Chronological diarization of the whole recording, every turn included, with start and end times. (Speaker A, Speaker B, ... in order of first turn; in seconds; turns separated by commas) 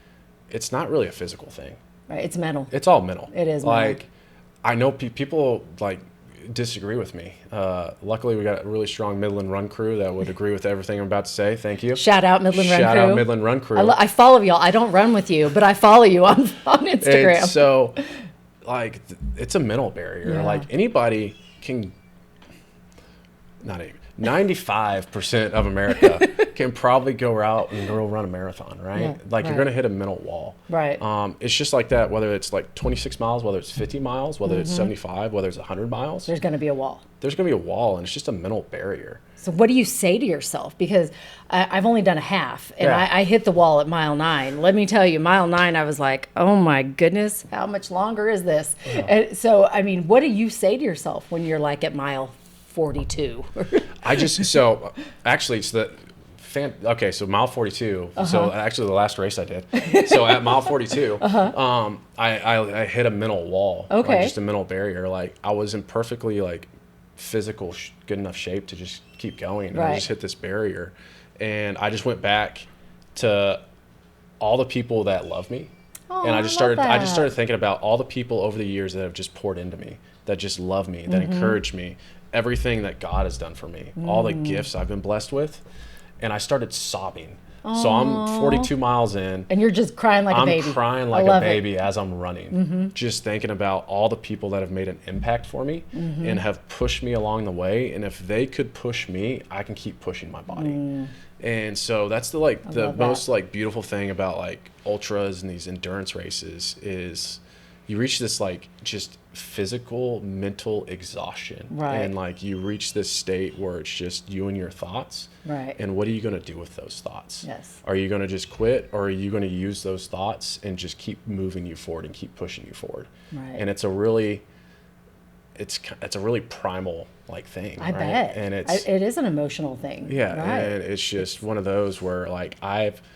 Speaker A: 0.5-1.8, Speaker B: 2.1-2.7, Speaker A: 2.7-4.1, Speaker B: 3.3-4.0, Speaker A: 4.6-14.0, Speaker B: 11.9-18.1, Speaker A: 17.0-18.0, Speaker A: 18.6-21.9, Speaker B: 20.2-20.7, Speaker A: 23.6-36.3, Speaker B: 28.9-29.7, Speaker B: 30.7-31.0, Speaker B: 34.5-34.9, Speaker B: 36.3-37.0, Speaker A: 37.2-39.2, Speaker B: 39.4-54.5, Speaker A: 42.8-43.1, Speaker A: 54.0-73.6, Speaker B: 58.2-58.5, Speaker B: 59.8-61.5, Speaker B: 63.9-64.3, Speaker B: 69.7-70.0, Speaker A: 74.4-75.7, Speaker B: 76.1-77.3, Speaker A: 76.2-85.6, Speaker B: 81.1-81.6, Speaker B: 84.0-84.7, Speaker A: 86.2-89.5, Speaker B: 87.7-88.7, Speaker B: 89.5-91.8, Speaker A: 90.3-100.8, Speaker B: 92.5-92.9, Speaker B: 95.9-96.4, Speaker B: 100.5-101.1, Speaker A: 101.4-124.4, Speaker B: 102.7-103.2, Speaker B: 111.7-112.1, Speaker B: 115.5-115.8, Speaker B: 117.5-117.8, Speaker B: 123.3-123.6, Speaker A: 125.6-128.8, Speaker B: 127.8-130.8, Speaker A: 130.1-133.0